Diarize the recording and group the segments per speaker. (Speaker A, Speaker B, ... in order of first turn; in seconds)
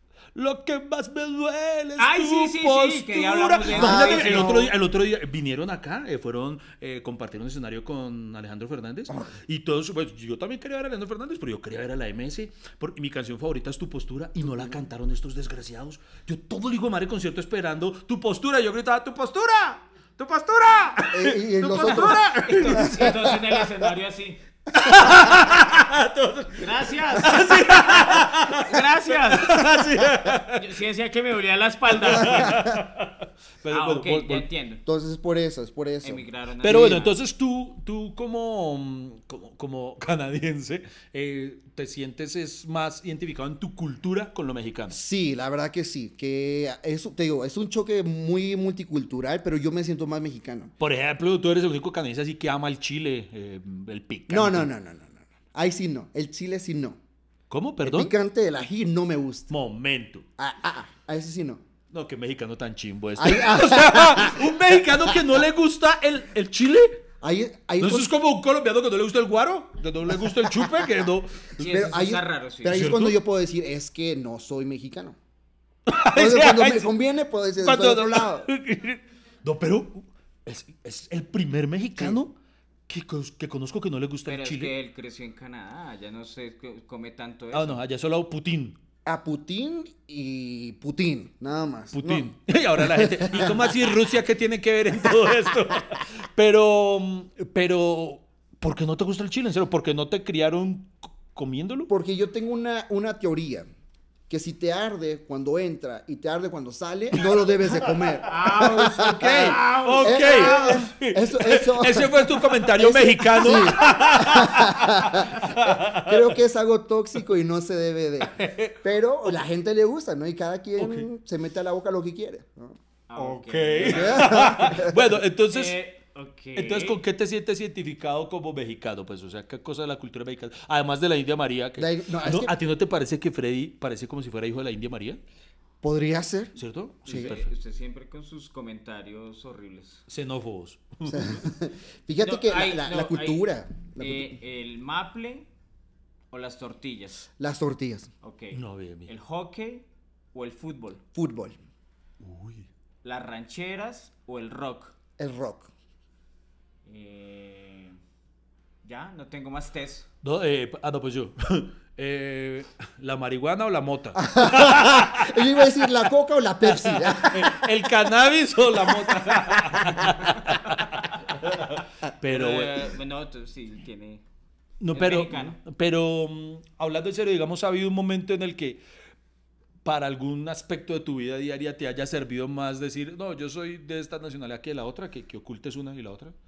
Speaker A: 0.3-23.3, 24.8-30.7, 32.0-34.5, 36.6-45.0, 50.8-54.7, 57.5-58.1, 59.5-60.2, 61.9-67.0, 67.8-71.7, 72.7-73.2, 75.9-76.9, 77.6-82.3, 82.9-84.7, 87.5-88.8, 91.9-101.9, 107.8-108.1, 108.9-116.4, 118.3-118.8, 120.8-121.1, 123.2-125.8, 126.6-135.2, 136.6-137.5, 140.1-141.4, 148.5-149.1, 152.2-152.7, 160.2-165.6, 166.6-172.9, 174.8-178.8, 179.8-186.3
Speaker B: 2.0-4.6, 22.4-24.4, 26.6-29.6, 30.6-32.6, 33.7-34.8, 36.0-37.2, 71.6-72.9, 84.3-87.8, 108.3-110.9, 123.1-124.7, 125.5-127.0, 137.1-140.1, 142.2-145.5, 146.3-147.3, 148.2-151.0, 153.0-154.9, 156.8-158.0, 158.8-160.1, 170.2-170.8, 172.3-174.2, 174.9-175.6
Speaker C: 3.7-4.7, 21.1-23.3, 32.3-32.8, 34.9-37.0, 44.9-50.7, 54.3-57.0, 57.8-59.5, 60.4-61.6, 63.2-65.3, 67.2-68.1, 70.2-70.9, 71.6-75.2, 76.1-78.5, 89.0-93.9, 101.9-103.7, 104.3-122.8, 123.8-125.1, 131.8-132.6, 135.8-137.3, 141.1-144.4, 147.4-148.1, 151.1-151.6, 155.2-155.7, 164.2-167.9, 168.9-170.1